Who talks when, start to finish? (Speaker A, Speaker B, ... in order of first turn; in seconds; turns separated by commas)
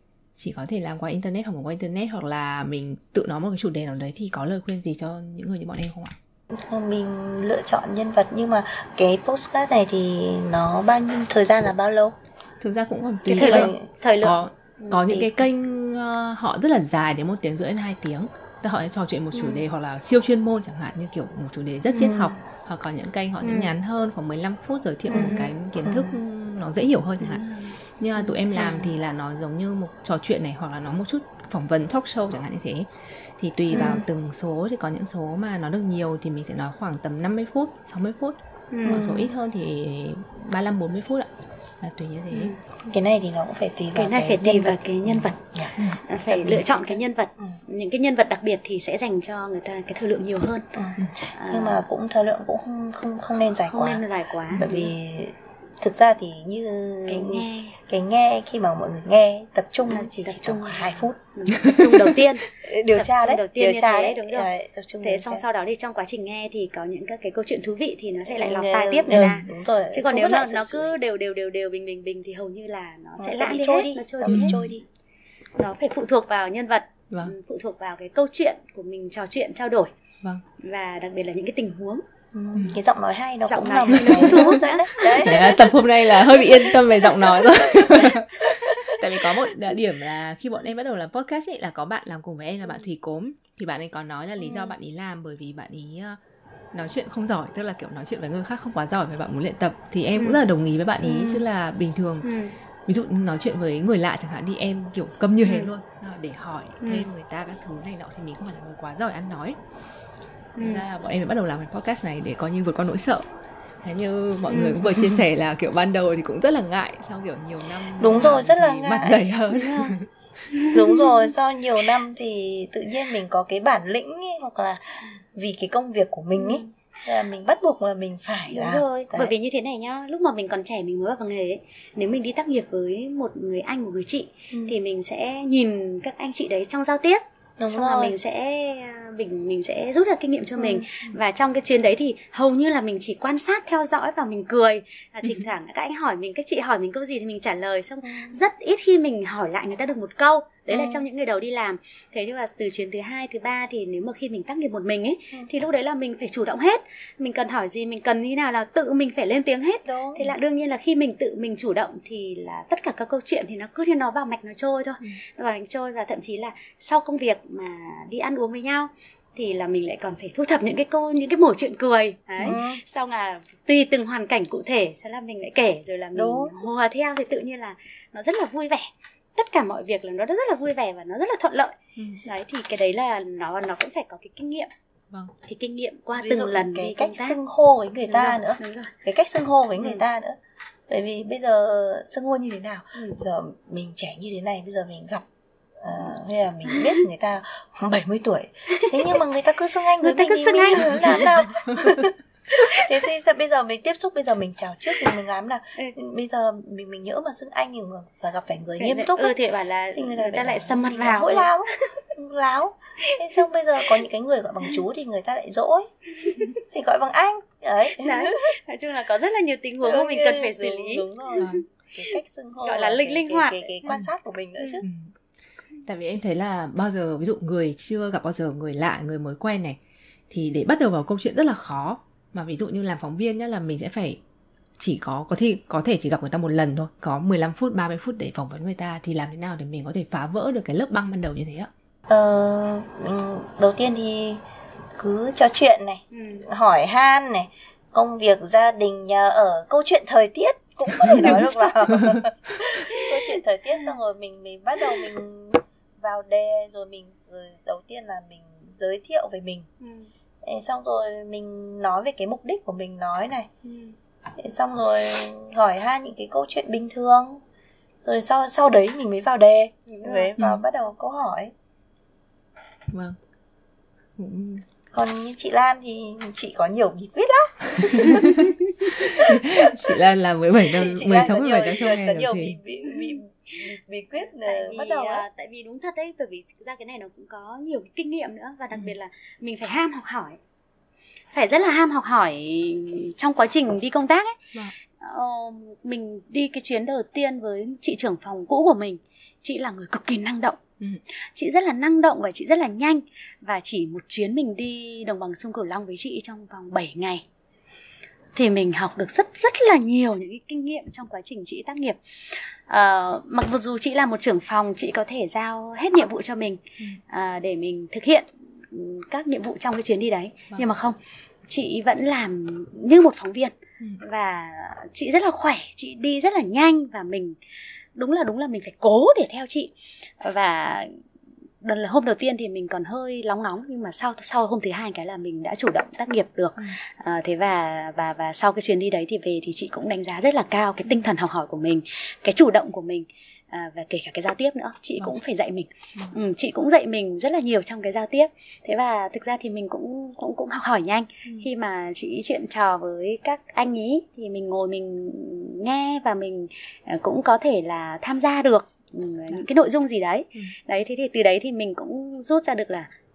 Speaker A: 0.4-6.1, Speaker B: 6.5-12.1, Speaker A: 12.6-27.4, Speaker B: 13.3-13.8, Speaker C: 13.3-15.3, Speaker C: 19.3-19.6, Speaker B: 21.9-22.3, Speaker C: 23.4-23.7, Speaker C: 25.1-25.5, Speaker B: 25.1-26.2, Speaker C: 27.2-28.9, Speaker A: 28.0-41.3, Speaker C: 33.7-34.0, Speaker C: 38.7-39.0, Speaker B: 38.9-39.3, Speaker A: 41.8-42.5, Speaker C: 42.3-42.6, Speaker B: 42.8-45.7, Speaker C: 43.9-50.7, Speaker B: 46.3-47.6, Speaker B: 50.7-61.2, Speaker C: 51.3-51.8, Speaker C: 53.6-54.9, Speaker C: 57.1-57.8, Speaker C: 59.9-64.5, Speaker B: 62.6-65.4, Speaker C: 65.0-74.7, Speaker B: 68.3-70.9, Speaker B: 73.2-74.8, Speaker A: 74.2-74.6, Speaker C: 75.6-79.9, Speaker C: 80.6-82.0, Speaker B: 82.3-85.6, Speaker C: 83.5-85.7, Speaker A: 83.9-96.2, Speaker C: 86.3-87.1, Speaker C: 87.7-88.1, Speaker B: 94.4-94.7, Speaker A: 96.7-102.3, Speaker C: 100.2-100.4, Speaker C: 101.0-101.4, Speaker C: 102.2-102.5, Speaker A: 102.9-109.6, Speaker C: 105.4-105.7, Speaker C: 106.8-107.1, Speaker C: 110.5-110.8, Speaker A: 110.6-113.2, Speaker A: 113.8-120.1, Speaker C: 114.5-115.0, Speaker B: 118.0-119.2, Speaker C: 119.5-119.9, Speaker C: 120.5-121.3, Speaker B: 120.7-129.3, Speaker C: 126.3-126.7, Speaker C: 128.5-184.7, Speaker B: 137.6-138.2, Speaker B: 140.6-141.2, Speaker B: 148.0-148.3, Speaker B: 150.7-151.0, Speaker B: 159.8-160.3, Speaker B: 172.4-172.8, Speaker B: 176.1-176.5, Speaker A: 181.9-182.2, Speaker C: 185.4-187.4, Speaker B: 186.2-190.4, Speaker C: 188.1-188.9, Speaker C: 189.8-190.0, Speaker B: 190.9-195.2, Speaker B: 195.8-209.3, Speaker C: 196.7-197.0, Speaker C: 198.7-199.2, Speaker C: 200.0-201.3, Speaker C: 208.8-211.5, Speaker B: 209.9-215.9, Speaker C: 216.2-216.5, Speaker B: 216.7-218.4, Speaker C: 217.9-221.6, Speaker B: 219.8-224.8, Speaker C: 222.6-224.0, Speaker C: 224.6-224.8, Speaker A: 224.8-225.1, Speaker A: 225.8-229.8, Speaker A: 230.3-234.2, Speaker A: 234.8-241.7, Speaker B: 242.1-244.4, Speaker B: 245.0-259.7, Speaker C: 246.1-246.4, Speaker C: 252.9-253.9, Speaker C: 259.8-260.1, Speaker B: 260.4-263.5, Speaker C: 263.6-263.9, Speaker B: 264.4-267.4, Speaker B: 268.0-271.5, Speaker C: 269.9-270.3, Speaker A: 270.4-270.6, Speaker A: 272.9-273.1, Speaker A: 274.2-274.6, Speaker B: 274.9-278.3, Speaker A: 277.9-282.6, Speaker B: 279.1-279.9, Speaker B: 280.7-285.2, Speaker C: 282.8-283.2, Speaker C: 284.2-290.4, Speaker C: 291.3-294.3, Speaker C: 295.0-300.6, Speaker C: 301.3-307.2, Speaker C: 308.3-312.0, Speaker C: 312.7-321.0, Speaker C: 321.5-327.4, Speaker C: 327.9-330.9, Speaker C: 331.6-362.9